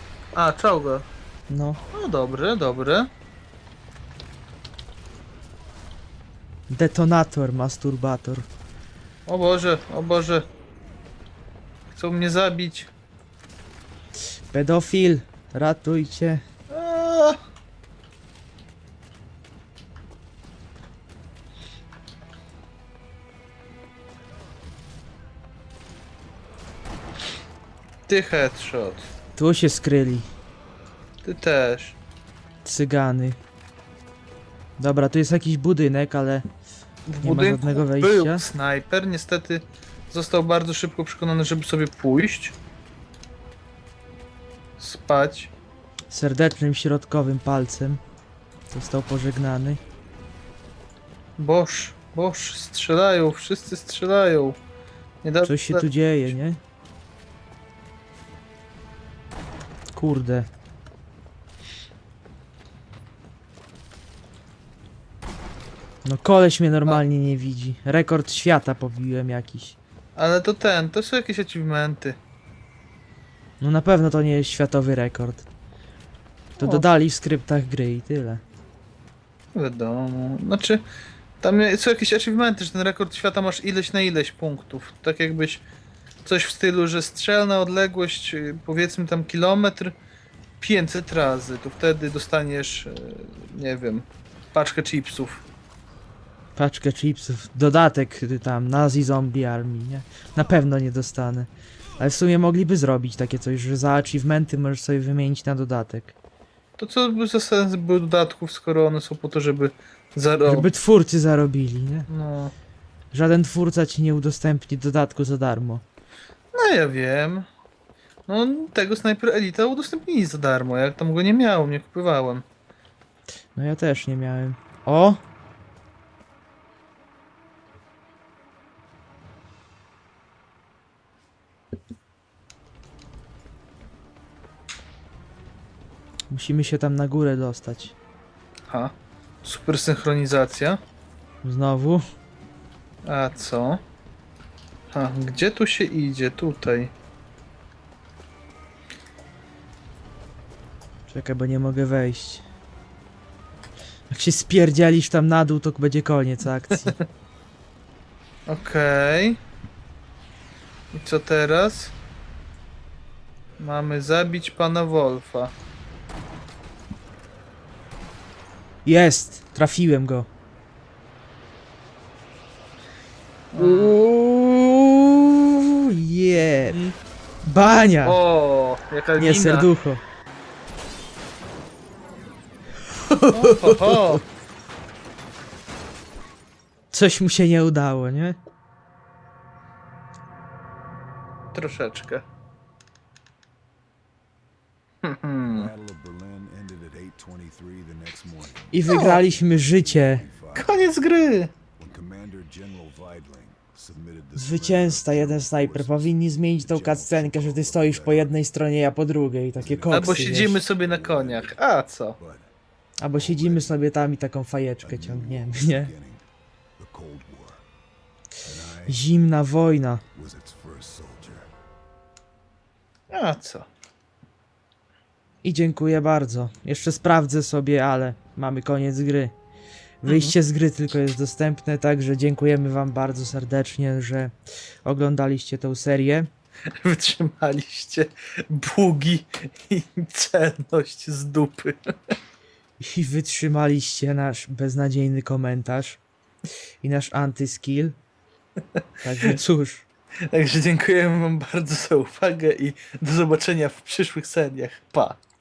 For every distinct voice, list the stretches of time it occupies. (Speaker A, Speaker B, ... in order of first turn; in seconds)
Speaker A: 0.3-1.1, 1.9-3.1, 9.3-10.4, 11.9-12.9, 16.7-17.4, 28.1-29.1, 31.2-32.0, 37.1-42.5, 44.8-45.5, 51.4-54.6, 55.2-55.9, 70.2-72.2, 76.6-76.8, 79.5-80.8, 81.4-85.6, 86.2-90.0, 90.6-95.4, 106.8-110.7, 112.1-112.5, 116.5-117.5, 118.3-122.4, 138.7-140.8, 143.0-143.8, 144.9-146.9, 158.5-159.4, 160.9-161.9, 163.6-165.5, 173.5-174.0, 176.7-176.9, 178.0-179.7, 183.3-184.2, 191.5-192.2, 195.0-195.7, 198.9-199.2, 200.5-201.5, 209.9-212.2, 223.1-223.7, 230.1-230.3, 236.8-241.8, 250.3-255.2
Speaker B: 1.5-1.8, 6.7-8.5, 14.5-16.4, 29.4-30.3, 32.6-33.4, 34.8-36.5, 37.2-38.4, 46.1-48.0, 48.7-49.8, 55.4-56.6, 59.9-60.5, 66.0-69.8, 73.6-75.5, 76.6-78.4, 96.5-106.1, 110.5-112.1, 113.1-115.8, 123.5-125.2, 136.3-137.9, 141.4-142.0, 151.1-152.4, 154.1-157.0, 168.8-170.3, 173.6-176.8, 177.4-178.2, 179.2-180.0, 182.9-184.2, 186.9-188.4, 198.7-200.2, 204.3-210.6, 213.0-215.9, 218.9-220.0, 225.4-229.3, 230.0-236.3, 242.8-246.0, 246.8-247.9, 249.0-249.8
Speaker C: 195.4-200.7, 201.8-208.3, 209.6-211.6, 212.2-212.5, 213.1-213.7, 214.8-216.2, 216.8-217.6, 218.4-219.0, 220.1-221.5